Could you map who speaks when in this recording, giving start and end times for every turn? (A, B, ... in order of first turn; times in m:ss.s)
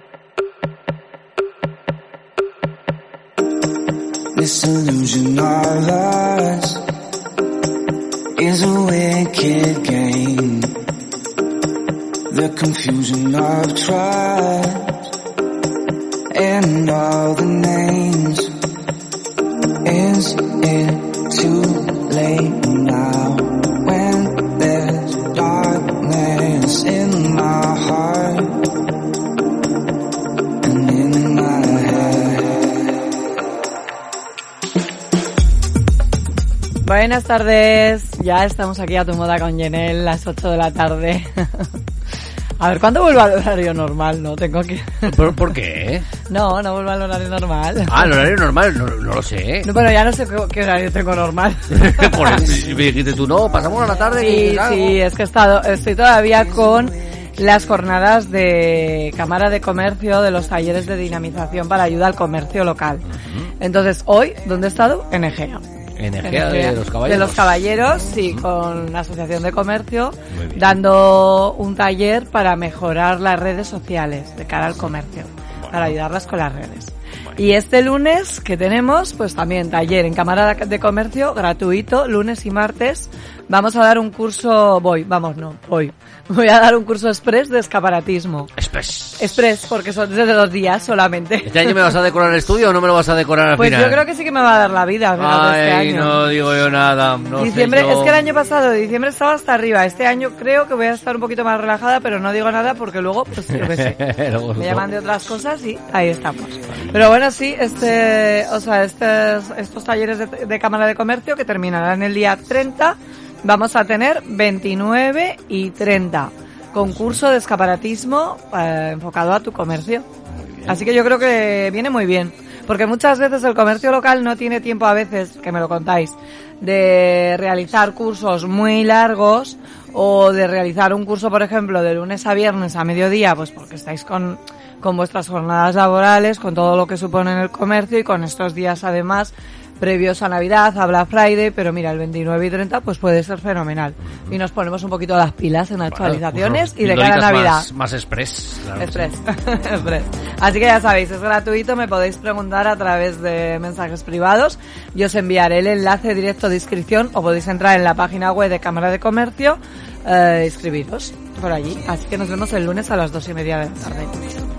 0:04.3-0:06.8 A
0:08.4-0:10.8 A
0:12.3-0:15.0 A
0:16.3-0:18.5 A
0:19.8-0:28.6 A
0:30.6-0:32.8 A
0:36.8-0:41.8 B
0:42.6-0:45.5 B
0:45.0-0:46.1 C
0:46.3-0:48.3 B
0:47.8-0:49.7 C
0:49.6-0:52.5 B
0:51.7-0:55.0 C
0:54.2-1:03.0 B
1:03.0-1:03.5 C
1:03.6-1:05.6 B
1:06.0-1:07.7 C
1:06.2-1:28.5 B
1:10.3-1:10.8 C
1:15.6-1:16.0 C
1:28.6-1:29.2 C
1:29.2-1:31.9 B
1:31.4-1:34.0 C
1:33.6-1:36.2 B
1:35.2-1:38.2 C
1:37.4-2:00.0 B
1:43.5-1:44.9 C
1:46.7-1:47.1 C
2:00.3-2:00.9 C
2:00.7-2:27.7 B
2:24.0-2:24.4 C
2:25.9-2:29.1 C
2:28.8-2:44.3 B